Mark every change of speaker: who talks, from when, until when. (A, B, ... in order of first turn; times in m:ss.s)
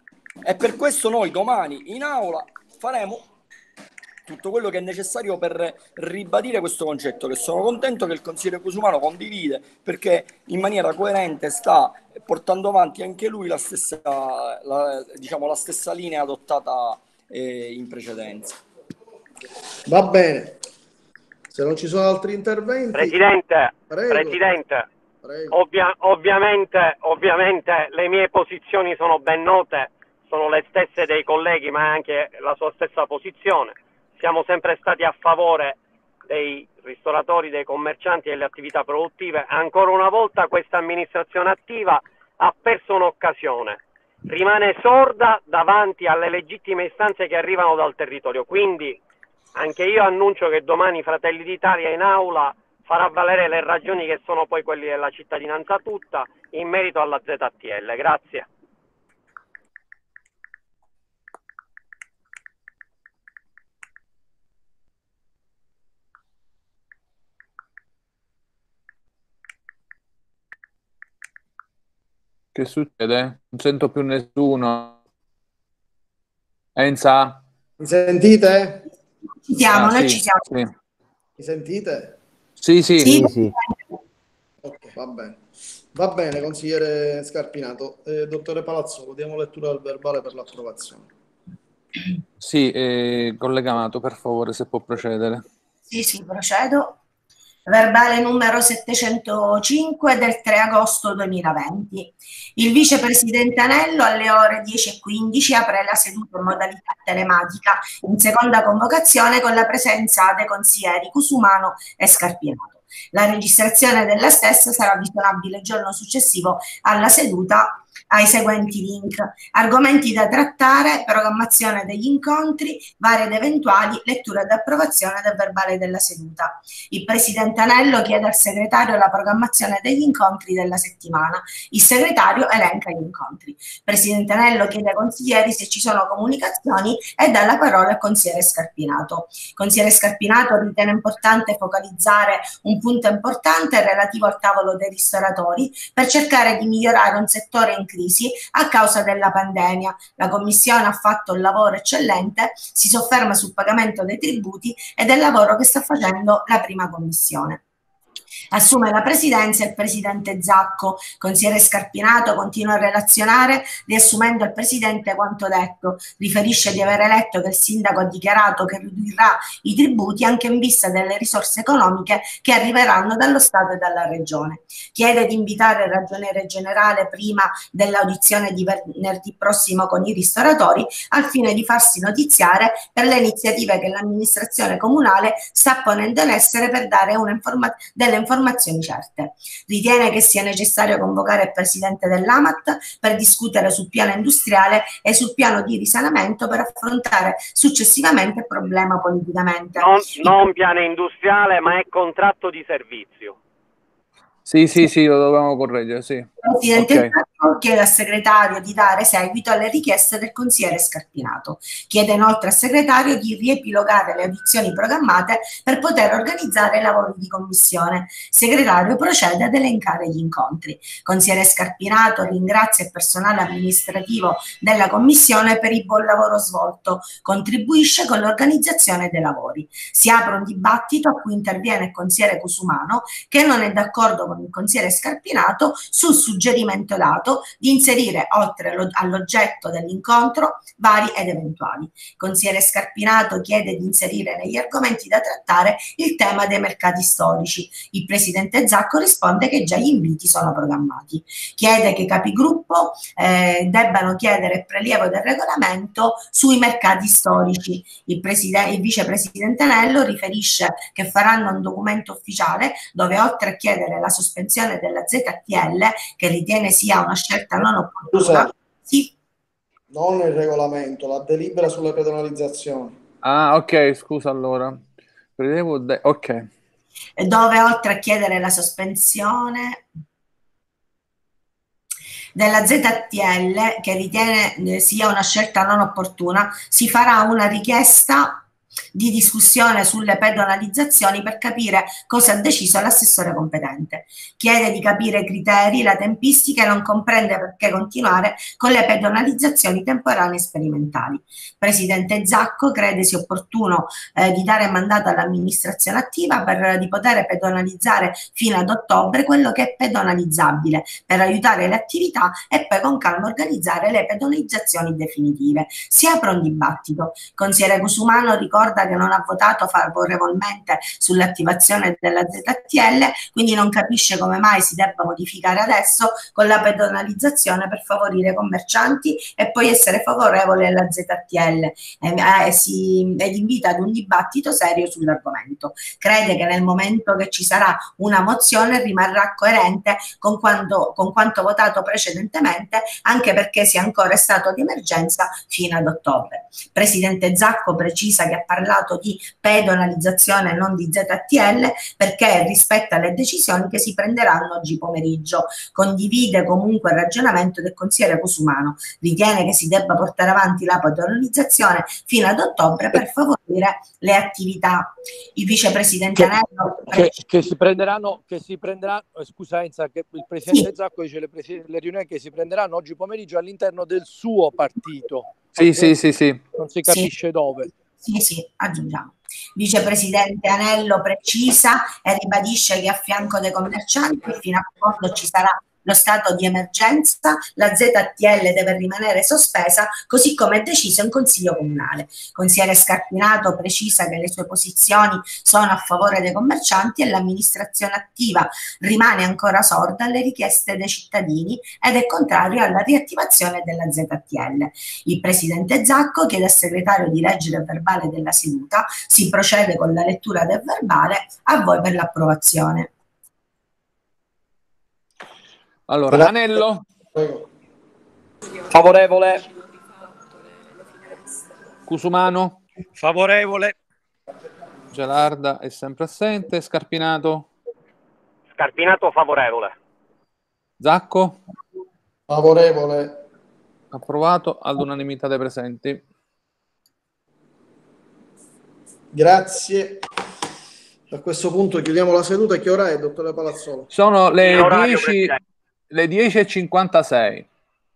0:00.4-0:03.3 A
0:04.2-0:18.6 A
0:19.9-0:20.6 B
0:21.5-0:23.2 B
0:22.9-0:24.9 C
0:23.9-0:24.4 B
0:25.2-0:25.6 B
0:25.5-0:49.0 C
0:49.6-0:58.5 C
1:12.6-1:15.0 D
1:16.8-1:17.4 D
1:17.8-1:18.9 B
1:19.5-1:20.5 E
1:19.7-1:20.7 D
1:21.4-1:22.2 B
1:22.6-1:23.5 D
1:23.0-1:23.8 E
1:24.6-1:25.4 B
1:25.9-1:31.1 B
1:32.4-1:35.4 D
1:35.9-1:37.0 E
1:37.7-2:37.6 E
2:38.5-3:20.4 E
3:19.8-3:23.4 C
3:24.5-3:27.1 D
3:26.4-4:29.1 E
4:28.1-4:28.5 B
4:29.9-4:33.0 B
4:33.2-4:34.8 D
4:35.4-4:36.5 D
4:37.2-4:39.8 E
4:42.4-6:07.2 E
6:06.9-6:16.0 F
6:15.6-6:16.4 D
6:16.6-6:17.7 F
6:18.0-6:52.9 E
6:55.9-6:56.8 D
6:57.1-6:57.4 B
6:58.6-6:59.5 A
7:01.9-7:02.6 D
7:03.0-7:03.7 F
7:04.9-7:07.5 D
7:08.6-7:09.7 C
7:10.8-7:11.4 D
7:12.3-7:13.3 B
7:13.9-7:16.0 D
7:19.1-7:20.0 B
7:21.1-7:23.9 B
7:23.9-7:25.4 D
7:24.4-7:25.4 C
7:25.9-7:27.5 D